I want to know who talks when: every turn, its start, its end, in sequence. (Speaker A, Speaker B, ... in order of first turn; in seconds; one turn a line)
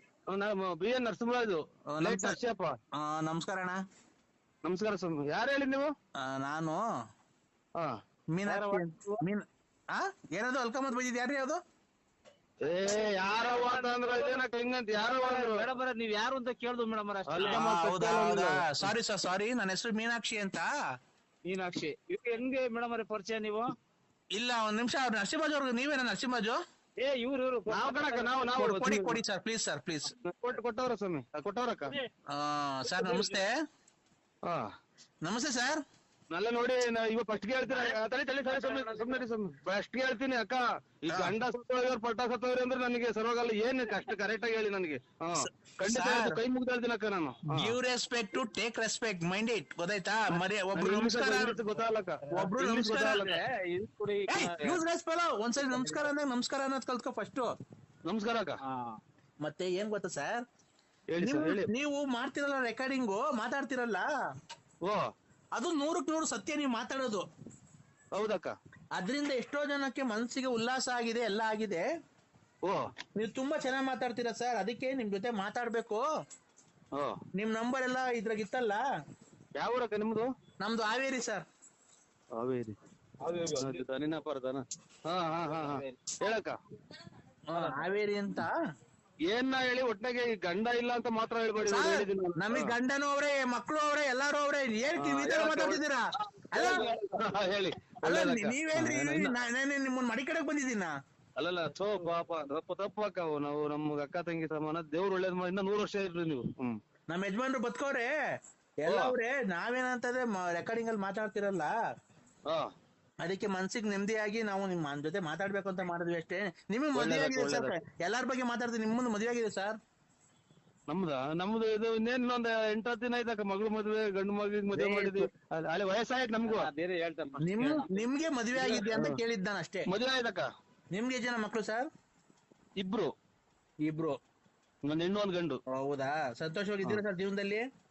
Speaker A: 0.3-2.7
Speaker B: 1.9-2.4
Speaker B: 2.9-3.8
Speaker A: 4.6-5.9
Speaker B: 6.2-6.8
Speaker B: 8.3-11.6
Speaker C: 8.4-9.2
Speaker A: 12.6-15.6
Speaker C: 12.9-14.4
Speaker C: 15.0-17.7
Speaker A: 17.3-18.6
Speaker B: 17.4-20.7
Speaker C: 21.4-23.7
Speaker B: 24.3-26.6
Speaker C: 27.0-28.5
Speaker A: 27.7-29.2
Speaker B: 28.6-30.1
Speaker A: 30.2-31.9
Speaker B: 32.3-33.6
Speaker C: 32.9-33.4
Speaker B: 35.2-35.8
Speaker A: 36.3-47.8
Speaker C: 38.5-39.2
Speaker B: 45.4-46.4
Speaker B: 47.5-51.6
Speaker A: 50.7-53.4
Speaker B: 52.3-53.3
Speaker C: 53.2-54.8
Speaker B: 54.3-57.5
Speaker C: 55.6-56.1
Speaker A: 58.0-58.5
Speaker C: 58.6-59.0
Speaker B: 59.4-60.4
Speaker A: 61.1-61.7
Speaker B: 61.2-64.0
Speaker B: 65.5-67.2
Speaker A: 68.1-68.5
Speaker B: 68.9-71.8
Speaker B: 73.2-76.0
Speaker B: 77.3-78.8
Speaker A: 79.6-80.3
Speaker B: 80.6-81.5
Speaker A: 82.3-82.7
Speaker C: 83.2-83.8
Speaker A: 83.5-86.5
Speaker C: 85.4-86.0
Speaker B: 87.5-88.5
Speaker C: 87.5-87.9
Speaker A: 89.3-92.7
Speaker B: 91.6-96.9
Speaker A: 95.0-95.8
Speaker A: 96.5-99.4
Speaker B: 98.0-100.9
Speaker A: 101.4-106.8
Speaker B: 107.1-108.1
Speaker B: 108.8-111.7
Speaker A: 108.9-109.1
Speaker B: 113.2-119.8
Speaker A: 116.9-117.8
Speaker A: 120.9-126.7
Speaker C: 124.7-125.2
Speaker C: 126.4-128.1
Speaker B: 127.4-129.9
Speaker A: 128.5-129.2
Speaker A: 129.9-130.5
Speaker B: 130.9-131.9
Speaker A: 132.8-133.1
Speaker B: 133.8-134.2
Speaker A: 134.8-135.6
Speaker B: 135.7-137.7